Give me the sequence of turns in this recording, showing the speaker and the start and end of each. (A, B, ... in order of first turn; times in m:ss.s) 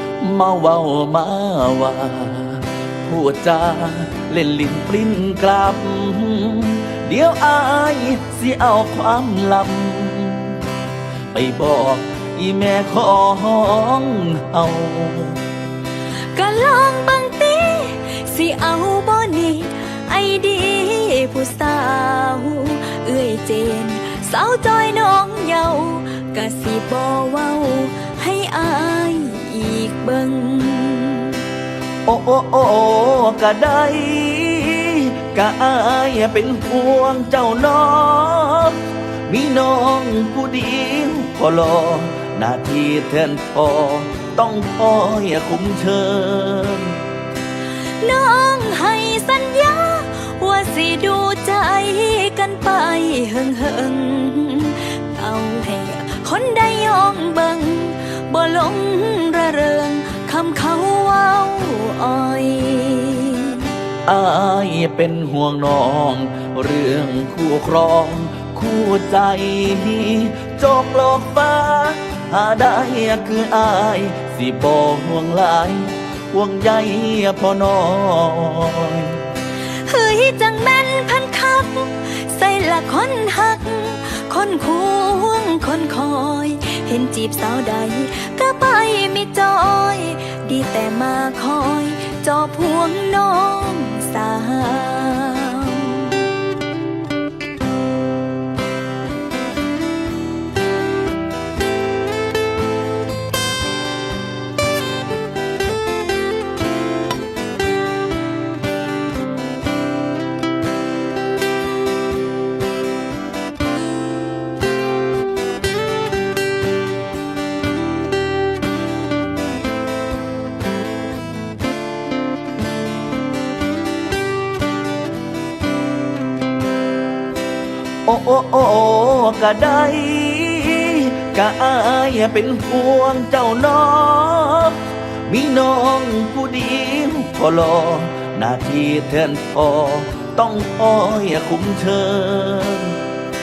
0:00.2-0:10.6 A
0:11.3-0:15.4 A
0:16.3-0:31.4 B
0:32.0-0:38.8 A
0:39.3-0:47.0 A
0:48.0-1:03.7 B
1:04.0-1:19.2 A
1:19.7-1:36.3 B
2:08.0-2:23.0 A